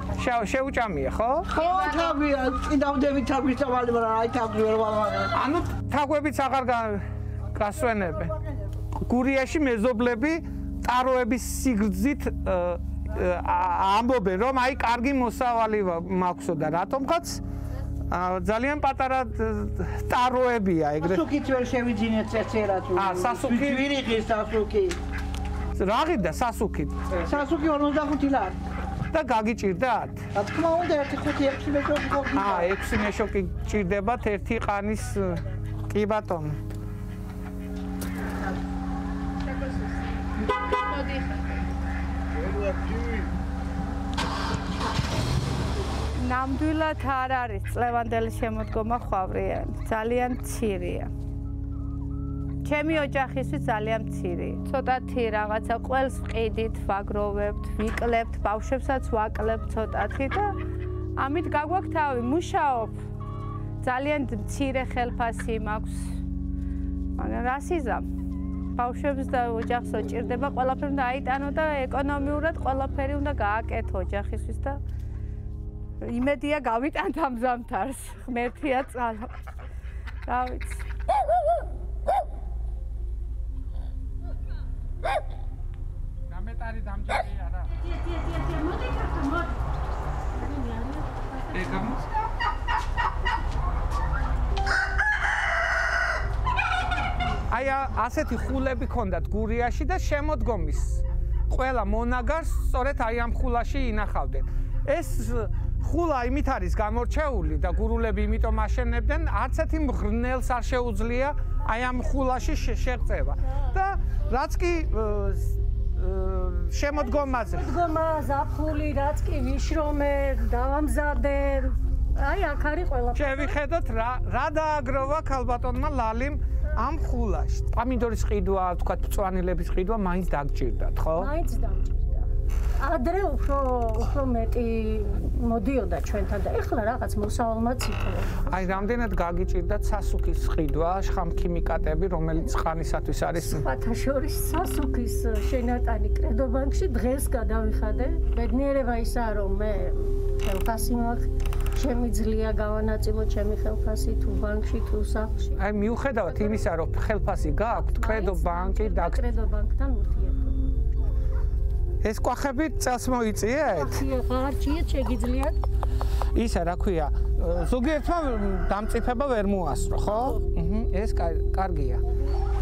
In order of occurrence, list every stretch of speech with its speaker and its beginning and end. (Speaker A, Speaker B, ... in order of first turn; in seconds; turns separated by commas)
Speaker A: 0.2-1.5, Speaker B: 1.5-5.3, Speaker A: 5.3-8.3, Speaker B: 7.6-8.7, Speaker A: 8.9-17.4, Speaker A: 18.1-21.2, Speaker B: 21.0-25.0, Speaker A: 22.9-23.9, Speaker A: 25.8-27.3, Speaker B: 27.3-28.6, Speaker A: 29.1-30.2, Speaker B: 30.3-32.7, Speaker A: 32.3-36.6, Speaker C: 40.6-41.4, Speaker C: 46.2-51.1, Speaker C: 52.6-60.5, Speaker C: 61.2-63.0, Speaker C: 63.8-66.2, Speaker C: 67.2-68.1, Speaker C: 68.8-74.8, Speaker C: 76.0-79.4, Speaker C: 80.2-80.8, Speaker A: 86.3-87.8, Speaker C: 88.3-89.2, Speaker D: 90.4-90.9, Speaker A: 91.5-92.1, Speaker A: 97.5-117.7, Speaker D: 117.3-123.6, Speaker A: 123.2-131.3, Speaker D: 131.2-132.3, Speaker D: 132.8-138.8, Speaker A: 138.4-143.7, Speaker D: 143.4-155.6, Speaker A: 155.6-159.2, Speaker D: 157.8-160.7, Speaker A: 162.0-164.1, Speaker D: 163.7-165.6, Speaker A: 166.3-172.0